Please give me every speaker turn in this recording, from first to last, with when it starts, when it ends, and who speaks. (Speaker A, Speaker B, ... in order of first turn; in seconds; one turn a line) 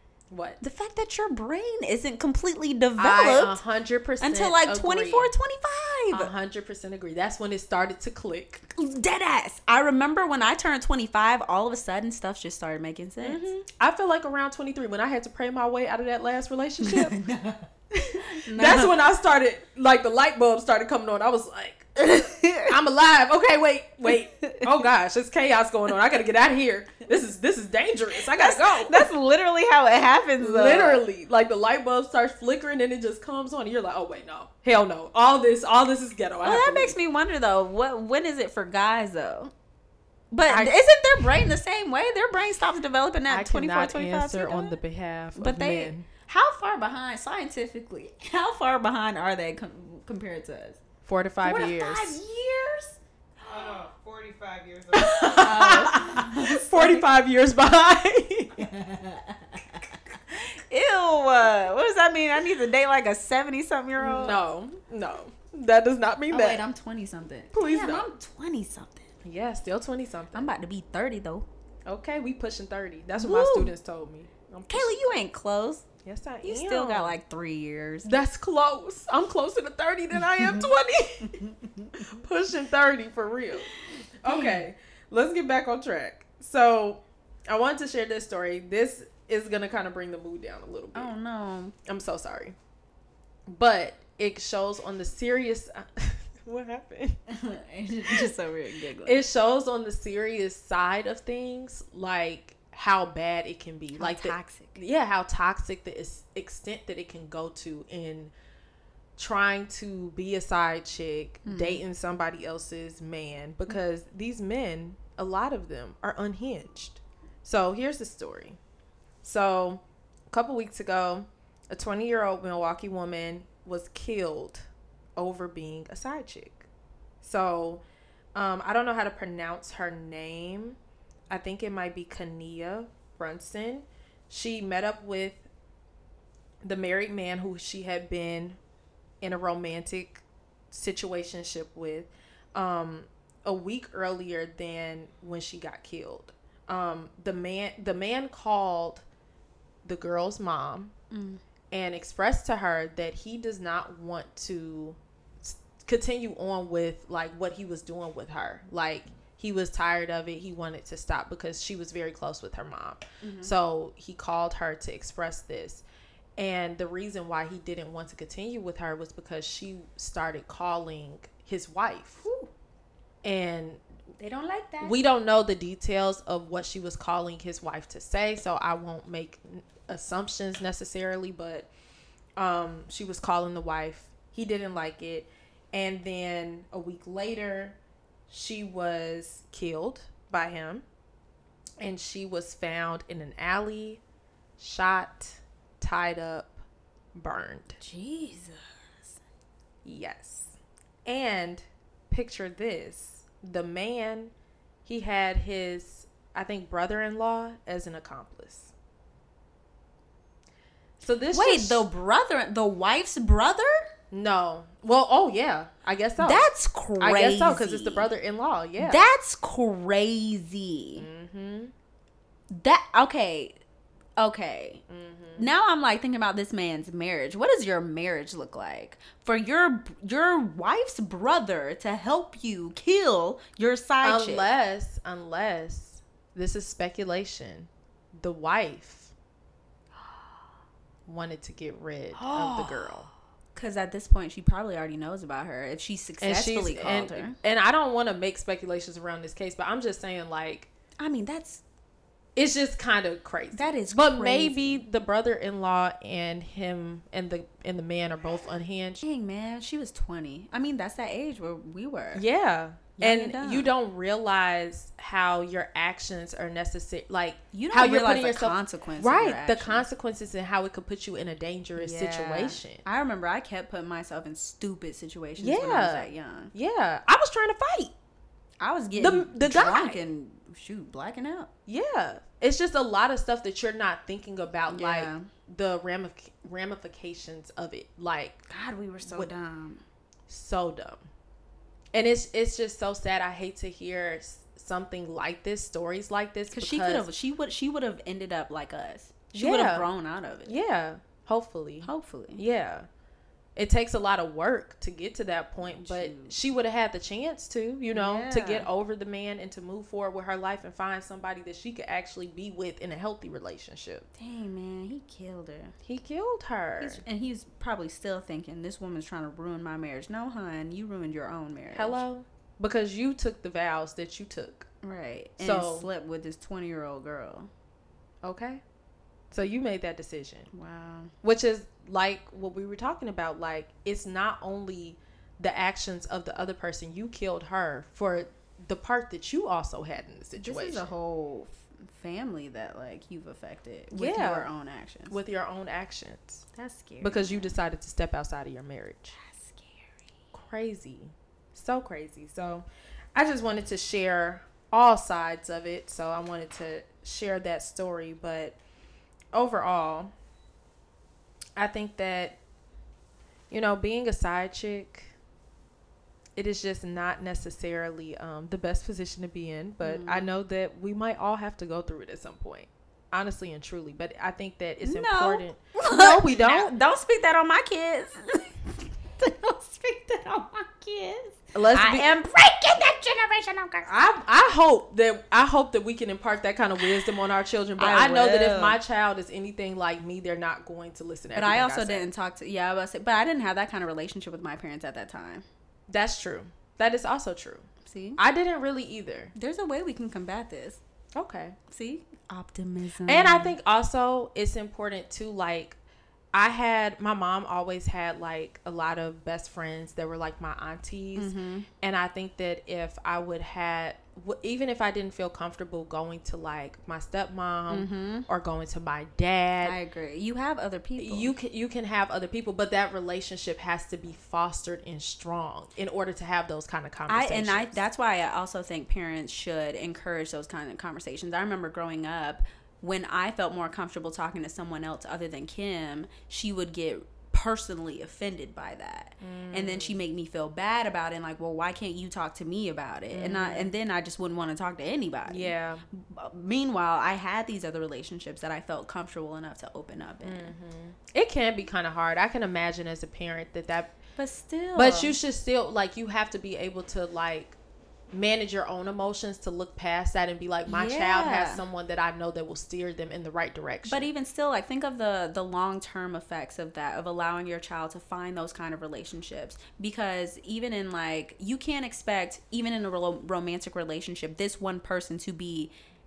Speaker A: 0.3-0.6
Speaker B: 0.6-3.6
Speaker A: 3.0-5.3
Speaker B: 4.2-6.3
Speaker A: 6.1-8.6
Speaker B: 8.7-13.5
Speaker A: 13.2-17.2
Speaker B: 16.8-18.9
Speaker A: 18.5-21.9
Speaker B: 22.0-22.7
Speaker A: 22.6-29.1
Speaker B: 24.1-24.7
Speaker B: 28.3-31.0
Speaker A: 30.4-37.0
Speaker B: 36.4-39.5
Speaker B: 40.3-44.8
Speaker A: 40.5-40.8
Speaker A: 43.3-46.1
Speaker B: 45.4-50.8
Speaker A: 51.0-52.2
Speaker B: 51.4-53.0
Speaker C: 53.5-55.4
Speaker A: 55.0-58.7
Speaker B: 55.4-57.1
Speaker B: 58.6-59.8
Speaker B: 60.4-64.4
Speaker A: 64.0-66.6
Speaker B: 66.3-69.1
Speaker A: 67.5-68.1
Speaker A: 69.2-70.5
Speaker B: 70.3-71.5
Speaker A: 71.9-75.0
Speaker B: 73.2-73.7
Speaker B: 74.7-75.9
Speaker A: 76.0-77.2
Speaker B: 76.4-78.1
Speaker A: 78.0-81.4
Speaker B: 80.4-80.6
Speaker B: 81.3-82.1
Speaker A: 82.1-83.7
Speaker A: 84.2-91.1
Speaker B: 84.2-84.7
Speaker B: 91.0-91.7
Speaker A: 91.9-92.6
Speaker A: 93.5-97.2
Speaker B: 97.3-99.2
Speaker A: 99.0-108.3
Speaker B: 104.0-104.8
Speaker A: 109.2-118.6
Speaker B: 111.5-111.8
Speaker A: 119.2-126.7
Speaker A: 127.2-127.8
Speaker A: 128.3-130.8
Speaker A: 131.3-135.5
Speaker A: 136.6-138.6
Speaker A: 139.2-149.1
Speaker A: 149.8-150.9
Speaker B: 151.1-151.4
Speaker A: 151.7-165.8
Speaker B: 163.2-163.5
Speaker A: 166.4-172.2
Speaker B: 172.2-172.5
Speaker A: 173.2-173.8
Speaker B: 174.2-175.0
Speaker A: 174.8-181.7
Speaker A: 182.4-187.8
Speaker A: 188.3-190.8
Speaker A: 191.8-194.0
Speaker A: 194.6-196.6
Speaker A: 197.1-197.8
Speaker B: 197.8-199.1
Speaker A: 199.8-204.3
Speaker A: 204.8-208.7
Speaker A: 211.0-211.9
Speaker B: 211.3-213.9
Speaker A: 214.1-216.5
Speaker B: 216.2-218.1
Speaker A: 217.0-219.0
Speaker B: 218.8-221.1
Speaker A: 221.0-221.7
Speaker B: 222.5-223.6
Speaker B: 224.2-224.8
Speaker A: 224.9-225.5
Speaker B: 225.4-234.5
Speaker A: 234.0-239.1
Speaker A: 241.1-243.1
Speaker B: 242.2-247.4
Speaker A: 246.2-250.7
Speaker B: 251.0-251.6
Speaker A: 252.4-259.0
Speaker B: 253.5-254.8
Speaker B: 259.0-262.2
Speaker A: 262.1-272.8
Speaker B: 263.0-263.7
Speaker B: 267.5-269.9
Speaker B: 271.8-276.5
Speaker A: 275.4-277.9
Speaker B: 278.6-281.5
Speaker A: 279.0-280.0
Speaker A: 281.7-288.4
Speaker B: 284.7-285.3
Speaker B: 288.5-289.8
Speaker A: 289.0-289.3
Speaker A: 290.3-291.1
Speaker A: 291.9-297.1
Speaker B: 296.5-300.6
Speaker A: 299.3-299.9
Speaker A: 300.4-302.9
Speaker B: 301.8-302.4
Speaker A: 303.6-314.1
Speaker B: 305.6-306.4
Speaker B: 307.9-308.7
Speaker B: 314.1-315.8
Speaker A: 315.8-317.0
Speaker B: 316.8-322.0
Speaker A: 321.7-324.7
Speaker B: 324.8-327.5
Speaker A: 325.4-325.9
Speaker A: 328.2-328.6
Speaker A: 329.3-330.5
Speaker B: 330.5-331.1
Speaker A: 331.2-340.9
Speaker B: 340.4-345.2
Speaker A: 343.9-344.5
Speaker A: 345.1-346.4
Speaker B: 346.5-347.6
Speaker A: 347.0-349.2
Speaker B: 349.1-350.0
Speaker A: 350.3-358.6
Speaker A: 359.3-360.1
Speaker A: 361.6-362.4
Speaker A: 363.5-365.1
Speaker A: 366.4-376.7
Speaker B: 369.8-370.3
Speaker B: 374.8-383.9
Speaker A: 381.5-382.1
Speaker A: 383.9-392.1
Speaker B: 387.8-388.8
Speaker B: 391.4-395.4
Speaker A: 395.9-399.3
Speaker B: 397.8-398.2
Speaker B: 399.4-400.8
Speaker A: 401.1-401.6
Speaker B: 401.7-403.6
Speaker A: 403.1-405.8
Speaker A: 406.3-419.8
Speaker B: 411.2-411.7
Speaker B: 417.7-418.3
Speaker B: 419.6-421.4
Speaker A: 421.0-427.8
Speaker B: 427.1-450.5
Speaker A: 439.2-440.0
Speaker A: 443.1-443.7
Speaker A: 445.3-445.8
Speaker A: 450.2-454.0
Speaker B: 454.2-455.2
Speaker A: 454.7-457.6
Speaker A: 458.1-464.1
Speaker B: 460.7-461.6
Speaker B: 463.9-475.7